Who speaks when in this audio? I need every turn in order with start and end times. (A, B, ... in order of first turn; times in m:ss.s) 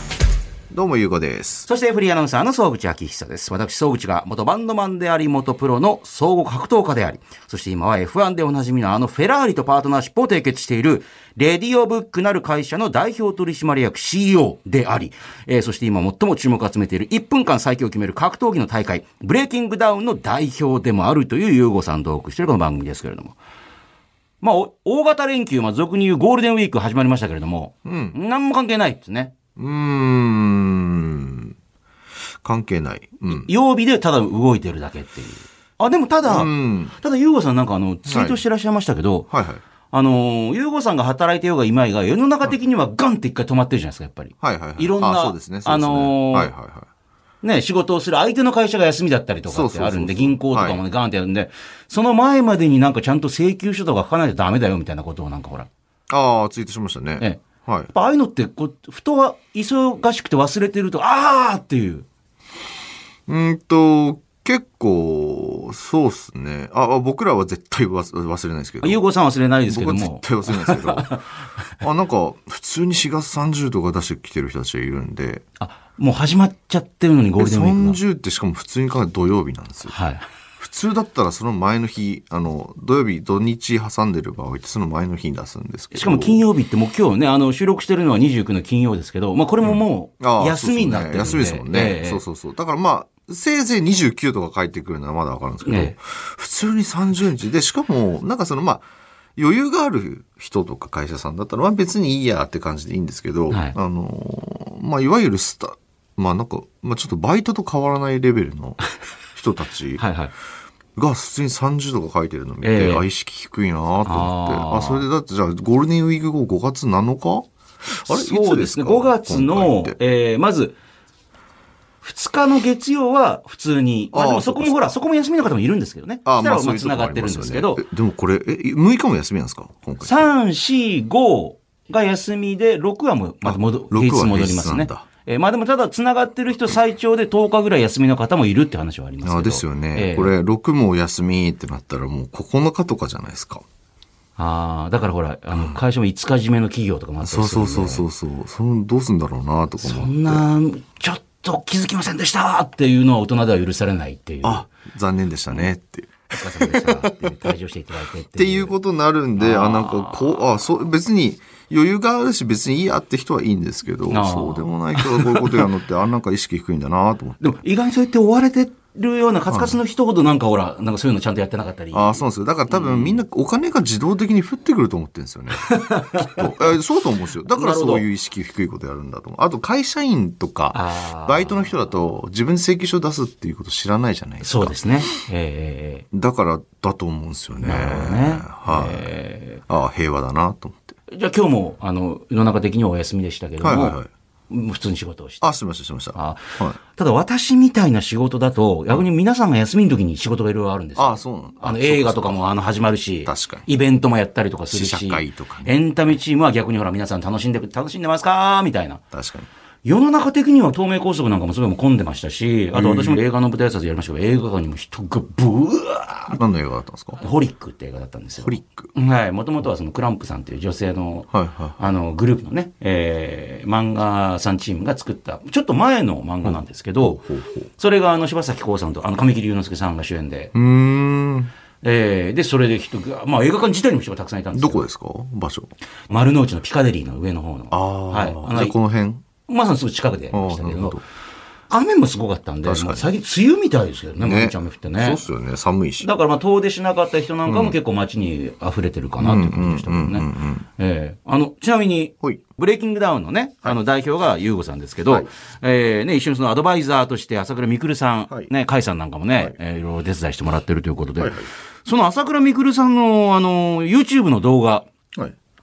0:00.7-0:01.6 A
0:01.6-0:23.4 B
0:24.4-0:29.3 B
0:27.8-0:28.2 A
0:29.6-0:31.5 A
0:32.4-0:33.5 A
0:33.3-0:39.3 B
0:36.2-0:37.0 A
0:38.1-0:38.4 A
0:39.3-0:39.6 A
0:39.9-0:46.5 B
0:44.4-0:46.9 A
0:47.4-0:55.7 B
0:49.5-0:50.8 A
0:56.1-0:57.9 A
0:57.9-1:02.0 B
1:03.3-1:09.0 A
1:08.8-1:11.2 B
1:09.7-1:11.1 A
1:11.8-1:15.4 A
1:15.6-1:18.0 B
1:17.4-1:20.0 A
1:19.9-1:20.2 B
1:20.6-1:26.4 A
1:25.9-1:32.2 B
1:29.6-1:48.8 A
1:35.6-1:35.9 B
1:43.5-1:43.7 B
1:49.4-1:50.0 A
1:50.0-1:50.3 B
1:51.0-2:00.0 A
1:52.6-1:53.0 B
1:54.0-1:55.0 B
1:58.1-2:00.7 B
2:02.0-2:07.8 B
2:04.1-2:04.9 A
2:06.2-2:10.3 A
2:10.0-2:20.3 B
2:13.4-2:15.1 A
2:19.2-2:23.6 A
2:24.4-2:28.0 B
2:27.2-2:30.4 A
2:29.8-2:34.7 B
2:34.4-2:37.3 A
2:36.3-2:38.7 B
2:38.4-2:47.4 A
2:39.4-2:40.4 B
2:44.1-2:45.7 B
2:47.4-2:53.2 B
2:49.5-2:49.8 A
2:51.9-3:04.8 A
2:55.6-2:56.7 B
2:57.6-2:58.1 B
3:00.7-3:01.7 B
3:04.4-3:06.0 B
3:06.1-3:11.0 A
3:07.6-3:09.6 B
3:11.1-3:14.0 B
3:13.6-3:14.1 A
3:14.5-3:15.4 B
3:15.4-3:16.8 A
3:16.1-3:29.0 B
3:21.0-3:22.6 A
3:23.2-3:23.7 A
3:24.7-3:25.7 A
3:29.1-3:29.5 A
3:29.8-3:36.4 B
3:32.7-3:33.2 A
3:36.4-3:37.2 A
3:37.2-3:47.2 B
3:38.4-3:38.9 A
3:41.3-3:41.8 A
3:46.4-3:47.7 A
3:47.8-3:50.5 B
3:50.5-3:51.5 A
3:51.8-3:54.8 B
3:54.5-3:55.7 A
3:56.1-3:58.7 B
3:57.7-3:59.2 A
3:59.5-4:01.0 B
4:00.3-4:01.0 A
4:01.7-4:05.2 B
4:02.6-4:03.1 A
4:04.2-4:06.1 A
4:06.0-4:24.9 B
4:07.4-4:07.8 A
4:09.2-4:10.6 A
4:21.2-4:21.5 A